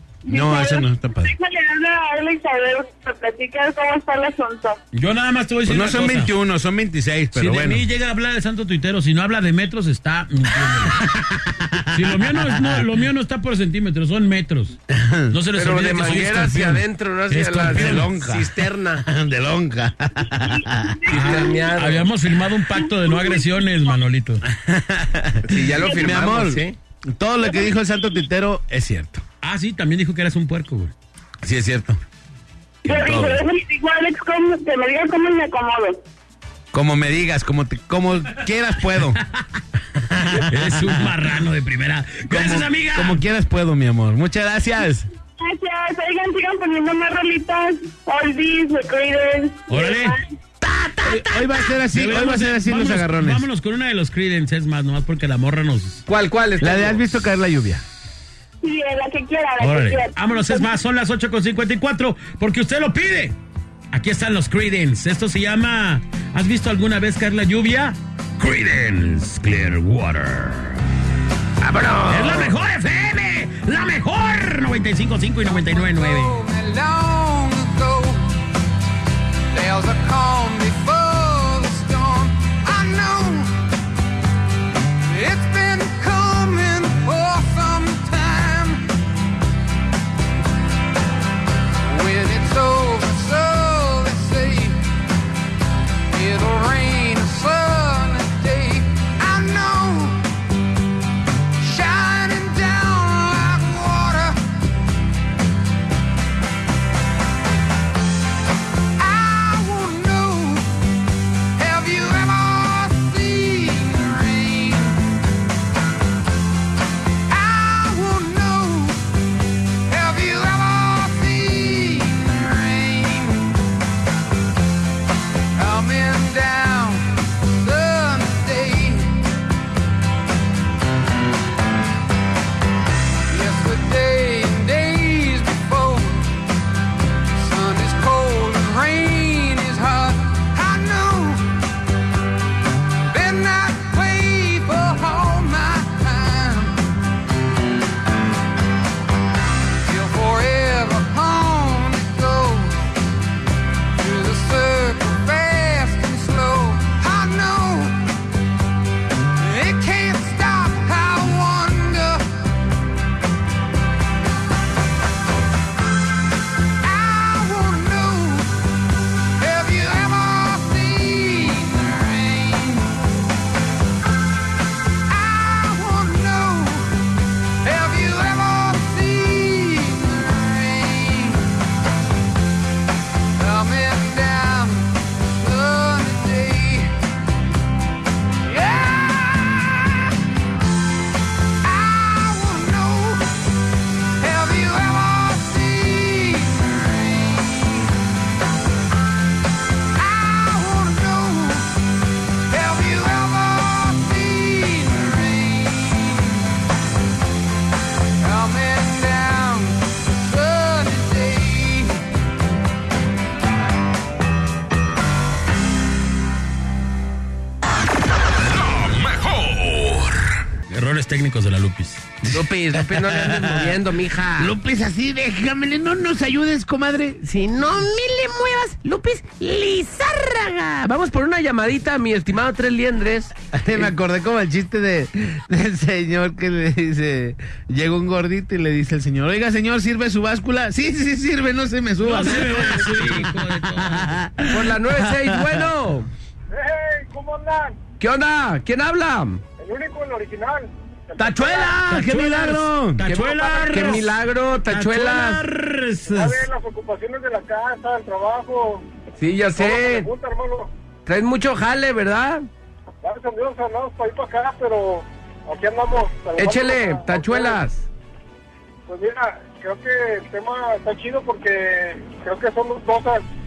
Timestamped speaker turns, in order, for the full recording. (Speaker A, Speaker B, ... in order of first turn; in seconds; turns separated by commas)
Speaker A: 0.2-4.8, Speaker B: 0.3-1.3, Speaker C: 4.9-6.3, Speaker B: 5.7-7.9, Speaker C: 7.3-11.1, Speaker B: 11.0-12.8, Speaker C: 11.9-14.8, Speaker B: 14.9-15.3, Speaker C: 15.3-18.1, Speaker D: 15.6-19.0, Speaker B: 17.6-21.1, Speaker A: 20.4-21.4, Speaker C: 21.1-24.4, Speaker D: 21.1-22.1, Speaker A: 22.8-23.5, Speaker B: 24.4-29.2, Speaker D: 25.5-26.8, Speaker A: 25.8-26.1, Speaker C: 29.4-30.9, Speaker B: 31.4-32.0, Speaker B: 32.9-33.4, Speaker A: 32.9-36.0, Speaker C: 32.9-33.2, Speaker B: 36.7-39.2, Speaker B: 40.0-41.1, Speaker C: 40.4-43.2, Speaker B: 42.3-45.1, Speaker A: 45.4-50.2, Speaker C: 49.7-56.0, Speaker B: 51.0-53.5, Speaker D: 56.1-57.0, Speaker B: 56.6-57.8, Speaker A: 58.6-60.7, Speaker C: 59.6-63.4, Speaker C: 63.9-70.8, Speaker D: 71.6-72.5, Speaker C: 72.1-76.4, Speaker E: 75.5-78.4, Speaker E: 79.5-83.5, Speaker E: 85.0-88.8, Speaker E: 91.9-94.8, Speaker E: 96.1-100.2, Speaker E: 101.6-104.4, Speaker E: 109.0-110.8, Speaker E: 111.6-115.0, Speaker E: 117.3-119.0, Speaker E: 119.9-123.5, Speaker E: 125.5-129.2, Speaker E: 133.3-136.3, Speaker E: 137.3-141.5, Speaker E: 143.1-146.8, Speaker E: 149.8-152.8, Speaker E: 154.0-158.0, Speaker E: 159.4-162.3, Speaker E: 166.8-168.6, Speaker E: 169.4-173.0, Speaker E: 175.1-176.9, Speaker E: 177.6-181.5, Speaker E: 183.4-186.9, Speaker E: 188.4-190.1, Speaker E: 191.6-193.2, Speaker E: 194.2-197.9, Speaker E: 200.0-201.7, Speaker E: 202.5-206.4, Speaker E: 208.2-212.0, Speaker E: 218.6-220.0, Speaker C: 220.7-222.1, Speaker B: 222.2-223.7, Speaker D: 222.3-224.6, Speaker B: 224.4-227.2, Speaker D: 227.2-233.9, Speaker B: 233.5-245.7, Speaker C: 242.0-244.2, Speaker D: 244.5-246.1, Speaker F: 246.5-247.8, Speaker D: 248.0-249.4, Speaker F: 249.6-251.8, Speaker B: 251.2-253.1, Speaker C: 251.8-254.1, Speaker D: 253.0-255.4, Speaker F: 253.3-253.9, Speaker C: 254.7-256.4, Speaker F: 256.1-258.9, Speaker D: 259.2-260.1, Speaker F: 259.6-260.7, Speaker D: 261.1-262.5, Speaker F: 263.0-267.6, Speaker D: 266.4-267.9, Speaker F: 268.9-273.2